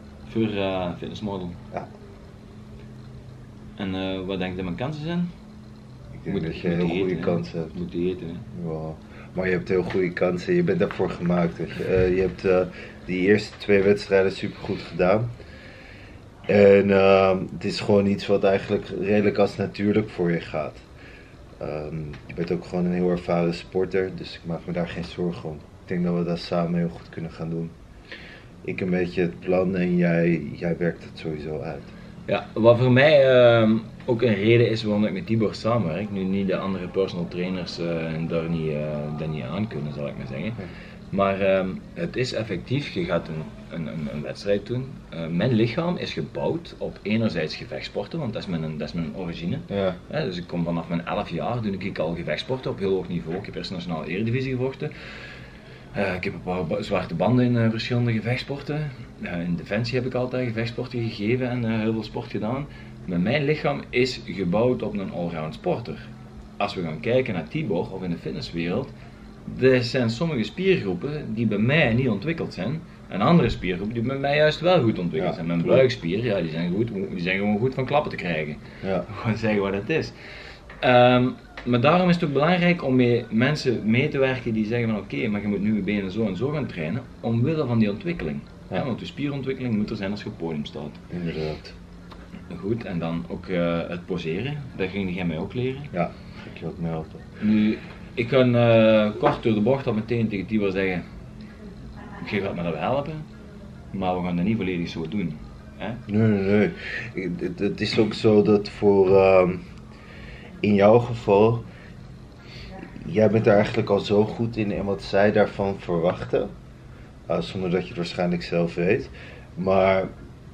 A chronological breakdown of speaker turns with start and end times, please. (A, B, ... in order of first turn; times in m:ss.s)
0:00.3-0:01.6 A
0:03.8-0:05.3 A
0:06.2-0:07.8 B
0:06.3-0:08.5 A
0:08.5-0:15.3 B
0:16.5-0:20.8 B
0:21.6-0:27.7 B
0:28.6-0:31.9 B
0:32.3-0:40.6 A
0:41.1-0:54.9 A
0:49.7-0:50.0 B
0:55.9-1:08.9 A
1:09.4-1:20.2 A
1:15.2-1:15.9 B
1:20.8-1:31.0 A
1:31.1-1:31.8 B
1:32.5-1:35.9 A
1:35.9-1:37.2 B
1:37.4-1:41.0 A
1:42.2-1:43.2 A
1:43.9-1:46.0 A
1:46.1-1:49.6 B
1:50.6-1:51.6 B
1:53.0-1:56.5 B
1:57.3-2:00.1 B